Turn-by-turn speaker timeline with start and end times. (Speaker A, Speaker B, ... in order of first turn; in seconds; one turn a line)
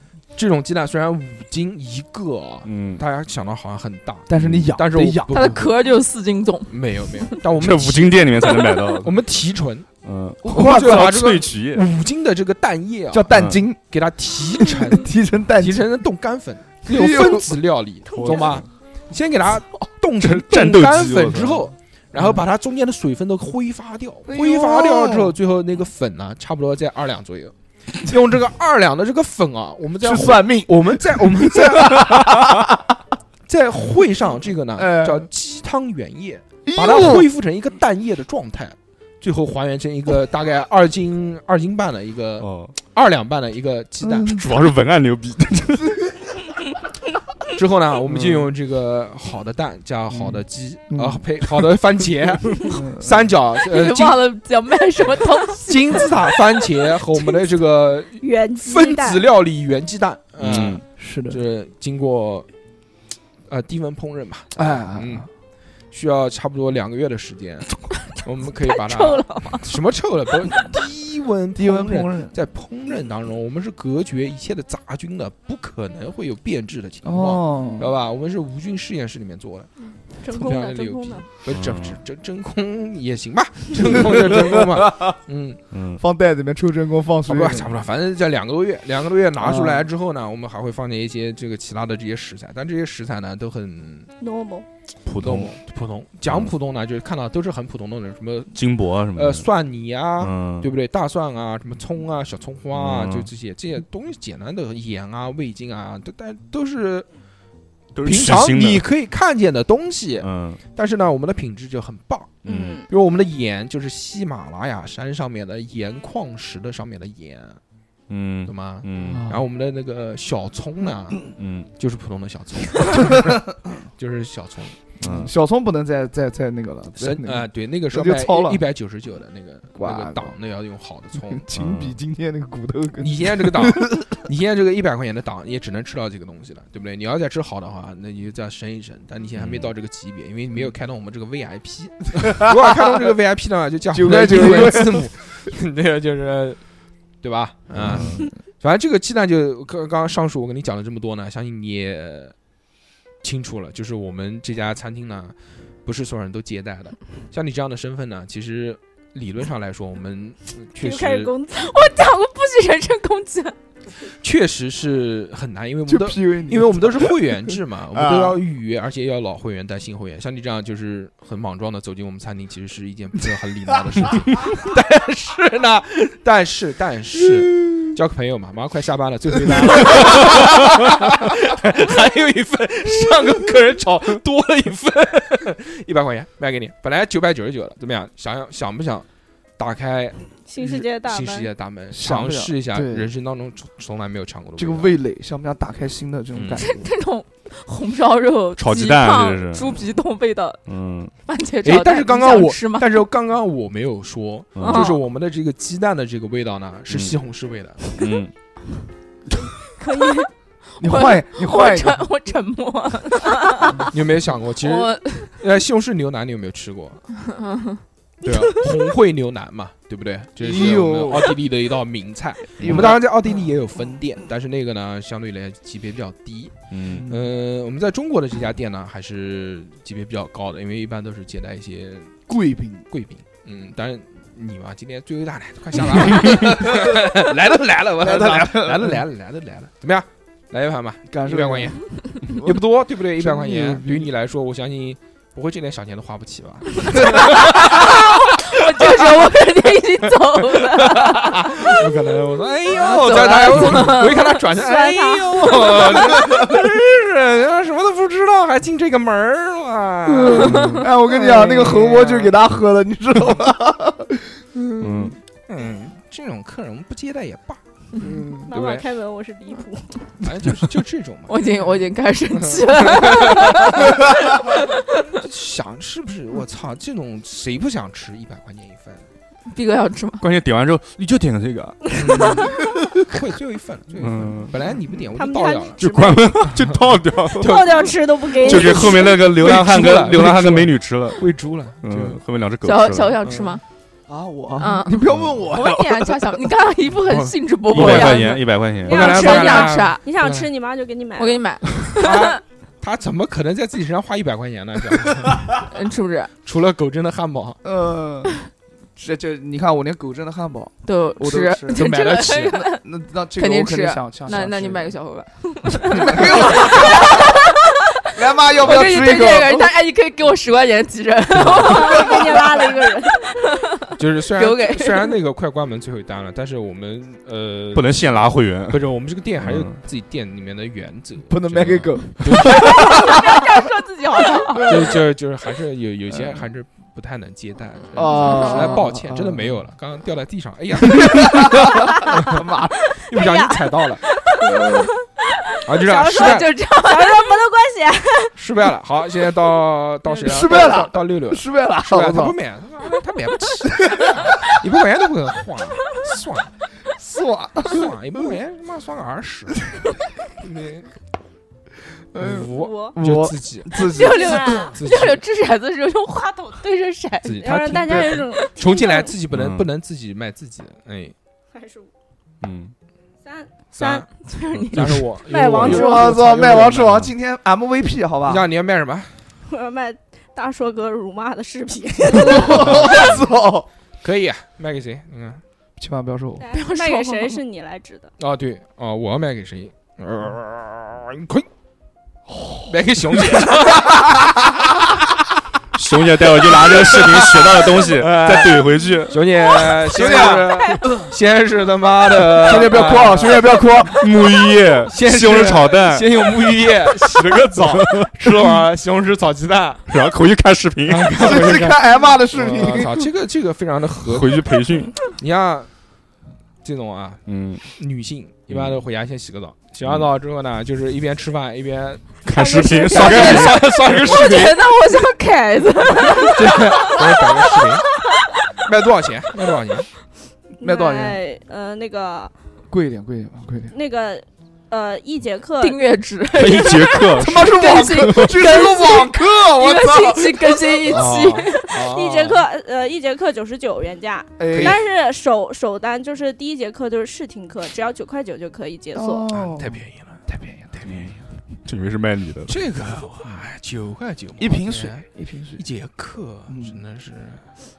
Speaker A: 0.3-5.7
Speaker B: 2.6-3.0
Speaker C: 4.3-5.5
Speaker B: 4.4-4.7
Speaker D: 5.3-7.3
Speaker A: 6.7-9.9
Speaker B: 7.5-9.1
Speaker B: 10.0-11.8
Speaker C: 10.4-11.1
Speaker A: 10.5-13.3
Speaker C: 13.1-13.8
Speaker B: 13.3-13.6
Speaker A: 13.9-32.6
Speaker C: 14.7-15.9
Speaker C: 16.9-17.5
Speaker E: 18.1-18.6
Speaker B: 18.1-18.6
Speaker B: 20.2-21.7
Speaker C: 24.3-25.3
Speaker C: 30.0-32.8
Speaker A: 33.5-44.5
Speaker C: 34.8-35.3
Speaker C: 36.6-37.3
Speaker B: 42.4-42.7
Speaker C: 44.0-44.3
Speaker B: 44.3-46.1
Speaker A: 47.5-54.2
Speaker B: 48.1-48.5
Speaker C: 50.1-51.2
Speaker C: 52.6-53.2
Speaker D: 53.6-56.2
Speaker A: 55.7-62.5
Speaker E: 58.2-59.2
Speaker B: 60.4-60.8
Speaker C: 61.0-61.4
Speaker A: 63.5-65.3
Speaker C: 64.5-65.3
Speaker A: 65.9-79.7
Speaker D: 68.6-69.7
Speaker C: 71.5-72.3
Speaker C: 77.0-77.9
Speaker E: 79.8-81.2
Speaker A: 80.3-85.6
Speaker B: 81.5-82.0
Speaker C: 83.8-85.2
Speaker B: 85.7-86.0
Speaker C: 86.0-87.7
Speaker A: 87.3-94.1
Speaker C: 89.4-89.8
Speaker E: 94.2-94.7
Speaker B: 95.0-95.5
Speaker A: 95.2-107.0
Speaker B: 98.5-99.5
Speaker B: 100.2-100.7
Speaker B: 102.7-103.3
Speaker B: 107.9-108.8
Speaker A: 108.0-117.6
Speaker B: 110.2-110.6
Speaker B: 112.4-112.8
Speaker E: 112.5-112.9
Speaker B: 118.1-119.2
Speaker A: 118.5-124.8
Speaker C: 119.0-119.4
Speaker B: 121.3-121.7
Speaker C: 125.0-128.6
Speaker B: 125.0-125.3
Speaker A: 127.0-131.4
Speaker C: 129.7-130.3
Speaker C: 131.2-134.2
Speaker B: 131.5-132.0
Speaker A: 133.0-146.6
Speaker B: 139.3-139.7
Speaker C: 143.9-145.1
Speaker A: 147.2-152.3
Speaker B: 147.7-148.2
Speaker A: 153.2-161.3
Speaker E: 160.8-161.8
Speaker D: 161.5-163.5
Speaker A: 164.2-189.1
Speaker C: 165.9-167.3
Speaker C: 167.9-168.4
Speaker C: 179.9-180.3
Speaker A: 189.6-194.9
Speaker E: 190.5-191.5
Speaker C: 191.9-193.1
Speaker C: 194.6-196.9
Speaker A: 196.3-196.6
Speaker D: 196.6-200.6
Speaker B: 198.6-199.8
Speaker B: 200.7-201.1
Speaker D: 201.2-203.0
Speaker A: 201.6-207.8
Speaker B: 204.5-204.9
Speaker D: 204.6-205.0
Speaker B: 206.9-207.1
Speaker B: 207.9-208.3
Speaker E: 209.8-210.3
Speaker C: 210.8-212.0
Speaker D: 210.8-213.9
Speaker A: 213.9-217.0
Speaker D: 214.6-215.4
Speaker D: 217.3-217.8
Speaker A: 218.2-232.3
Speaker C: 220.4-221.4
Speaker B: 222.6-223.0
Speaker C: 222.6-223.0
Speaker B: 226.7-227.1
Speaker C: 226.9-227.2
Speaker C: 232.3-232.9
Speaker A: 232.9-249.3
Speaker C: 236.5-237.0
Speaker C: 238.0-239.0
Speaker C: 241.1-242.6
Speaker C: 243.2-244.1
Speaker D: 246.8-251.9
Speaker A: 250.2-262.3
Speaker D: 252.7-254.4
Speaker E: 254.5-256.5
Speaker C: 260.1-265.1
Speaker B: 260.3-260.8
Speaker B: 264.8-265.1
Speaker A: 265.5-267.6
Speaker C: 268.0-268.5
Speaker E: 268.4-270.1
Speaker A: 268.5-268.8
Speaker A: 270.2-271.7
Speaker D: 271.3-275.0
Speaker A: 272.3-274.0
Speaker A: 275.1-279.0
Speaker D: 279.5-280.3
Speaker B: 280.2-282.4
Speaker A: 282.0-286.8
Speaker B: 284.0-284.5
Speaker E: 285.1-286.4
Speaker B: 285.8-293.2
Speaker E: 287.3-289.2
Speaker A: 287.4-292.2
Speaker D: 292.6-293.6
Speaker A: 293.2-293.6
Speaker C: 294.1-296.4
Speaker D: 294.6-300.0
Speaker B: 295.1-295.4
Speaker A: 297.1-300.5
Speaker B: 297.7-299.2
Speaker E: 298.8-301.8
Speaker D: 301.2-302.4
Speaker A: 301.9-305.6
Speaker D: 305.7-306.3
Speaker A: 306.4-307.6
Speaker C: 307.6-315.0
Speaker D: 310.8-312.8
Speaker A: 311.7-312.6
Speaker D: 313.4-318.0
Speaker C: 315.8-317.4
Speaker C: 318.1-319.7
Speaker D: 318.5-322.6
Speaker A: 321.4-321.7
Speaker E: 321.5-323.5
Speaker A: 323.9-333.1
Speaker D: 324.4-325.1
Speaker B: 327.7-329.8
Speaker C: 331.3-333.4
Speaker B: 331.6-331.9
Speaker D: 332.5-334.9
Speaker C: 334.5-335.0
Speaker A: 334.6-342.4
Speaker C: 337.9-339.6
Speaker E: 338.2-338.7
Speaker D: 338.2-338.8
Speaker C: 341.0-342.9
Speaker E: 341.7-342.4
Speaker E: 342.9-344.9
Speaker A: 343.1-344.0
Speaker C: 344.4-344.9
Speaker A: 345.6-346.5
Speaker E: 345.8-348.3
Speaker D: 345.9-347.4
Speaker A: 348.4-356.5
Speaker C: 350.2-352.4
Speaker C: 353.8-354.3
Speaker C: 357.0-357.9
Speaker A: 357.6-359.7
Speaker A: 360.4-360.9
Speaker C: 362.1-364.6
Speaker A: 362.1-363.9
Speaker E: 362.5-363.0
Speaker D: 363.7-367.6
Speaker E: 363.9-364.8
Speaker A: 364.7-365.2
Speaker A: 367.2-371.1
Speaker E: 367.4-369.1
Speaker B: 369.3-369.7
Speaker E: 371.5-371.9
Speaker B: 372.4-372.7
Speaker E: 373.2-374.1
Speaker A: 373.7-374.1
Speaker D: 374.2-375.1
Speaker A: 374.6-377.1
Speaker E: 375.2-376.2
Speaker C: 375.6-378.4
Speaker A: 378.2-379.2
Speaker E: 379.4-383.2
Speaker C: 382.1-383.7
Speaker A: 382.3-383.2
Speaker A: 384.0-385.4
Speaker C: 385.8-386.5
Speaker E: 386.4-388.1
Speaker D: 386.5-387.4
Speaker A: 388.2-391.5
Speaker A: 392.7-394.5
Speaker B: 395.7-399.5
Speaker A: 396.2-403.9
Speaker C: 399.8-401.0
Speaker C: 402.1-404.1
Speaker B: 404.0-406.1
Speaker A: 404.9-409.9
Speaker B: 407.6-408.3
Speaker B: 409.9-411.3
Speaker A: 410.9-415.7
Speaker C: 411.2-413.1
Speaker B: 414.0-414.9
Speaker A: 416.6-417.2
Speaker B: 417.2-417.6
Speaker A: 417.7-422.3
Speaker B: 418.5-418.8
Speaker B: 422.2-423.8
Speaker E: 422.3-423.4
Speaker D: 422.8-428.5
Speaker A: 422.9-424.7
Speaker A: 426.2-427.9
Speaker A: 428.6-429.9
Speaker E: 430.6-432.3
Speaker C: 430.6-431.2
Speaker C: 432.7-433.7
Speaker E: 433.7-435.8
Speaker D: 435.6-441.7
Speaker B: 436.3-438.4
Speaker C: 437.2-441.0
Speaker A: 440.9-442.4
Speaker E: 441.5-449.4
Speaker C: 444.4-444.8
Speaker C: 448.9-451.1
Speaker A: 449.3-450.2
Speaker A: 450.7-451.1
Speaker B: 450.8-451.1
Speaker B: 451.6-452.6
Speaker A: 452.5-457.6
Speaker C: 454.4-455.6
Speaker C: 456.5-456.8